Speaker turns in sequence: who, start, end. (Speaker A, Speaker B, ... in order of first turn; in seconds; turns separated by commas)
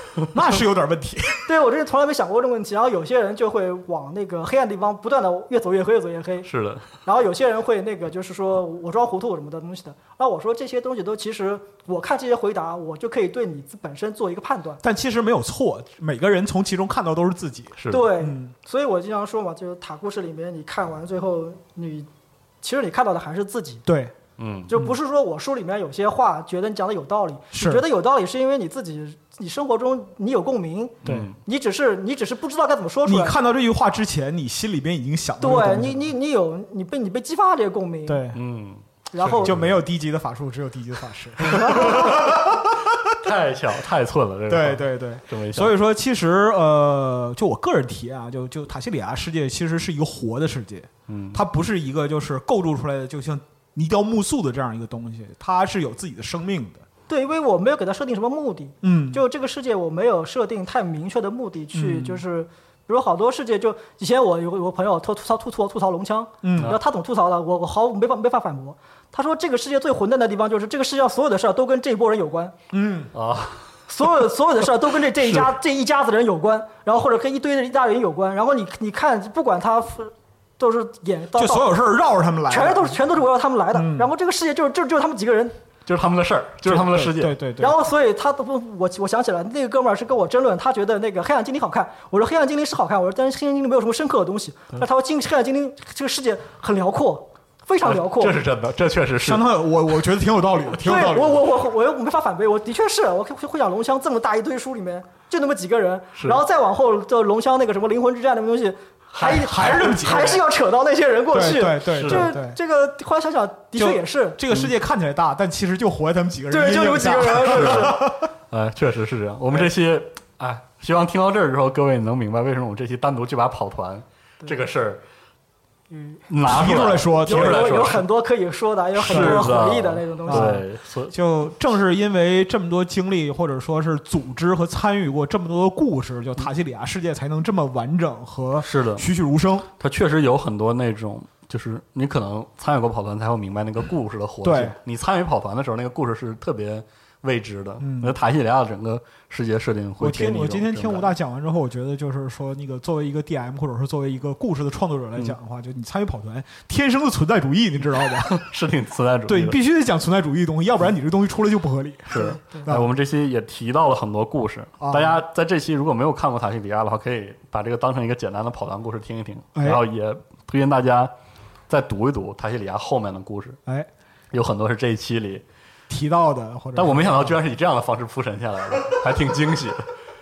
Speaker A: 0.3-1.5, Speaker B: 1.4-6.5, Speaker C: 6.5-6.9, Speaker B: 7.0-14.8, Speaker A: 14.8-18.5, Speaker C: 17.8-18.1, Speaker B: 17.9-22.1, Speaker B: 22.6-23.8, Speaker A: 23.9-24.1, Speaker C: 24.4-24.7, Speaker B: 24.7-33.4, Speaker A: 27.5-27.8, Speaker C: 31.0-31.4, Speaker A: 31.1-31.3, Speaker A: 33.0-36.1, Speaker B: 35.4-38.2, Speaker A: 38.1-38.4, Speaker C: 38.3-39.8, Speaker B: 39.1-39.5, Speaker A: 39.4-42.7, Speaker C: 41.5-42.4, Speaker B: 41.5-42.1, Speaker C: 43.2-45.7, Speaker A: 44.5-56.8, Speaker C: 51.1-51.4, Speaker B: 57.1-72.5, Speaker A: 58.8-59.2, Speaker A: 61.7-62.2, Speaker A: 66.4-66.8, Speaker A: 72.7-73.1, Speaker C: 73.1-73.7, Speaker B: 73.9-81.7, Speaker A: 81.3-83.0, Speaker B: 82.5-85.5, Speaker A: 83.7-84.1, Speaker C: 85.8-87.4, Speaker A: 86.6-87.8, Speaker B: 87.6-98.4, Speaker C: 97.8-99.5, Speaker A: 99.2-101.4, Speaker B: 100.8-114.4, Speaker C: 109.2-109.9, Speaker A: 109.2-110.4, Speaker A: 111.3-112.6, Speaker C: 112.0-112.3, Speaker A: 113.7-118.3, Speaker B: 116.5-118.0, Speaker C: 117.5-117.9, Speaker C: 118.5-125.0, Speaker B: 125.9-130.6, Speaker C: 126.3-128.0, Speaker A: 126.4-127.9, Speaker C: 129.0-131.1, Speaker A: 129.1-129.6, Speaker A: 130.3-139.7, Speaker C: 138.6-139.1, Speaker C: 139.8-151.1, Speaker A: 144.4-144.8, Speaker A: 147.8-148.2, Speaker A: 150.0-158.4, Speaker C: 158.2-159.6, Speaker A: 159.3-162.9, Speaker C: 162.1-171.1, Speaker B: 162.3-162.7, Speaker A: 164.8-165.2, Speaker A: 169.5-169.8, Speaker C: 171.7-173.6, Speaker C: 174.3-175.4, Speaker A: 175.9-177.4, Speaker C: 176.8-179.9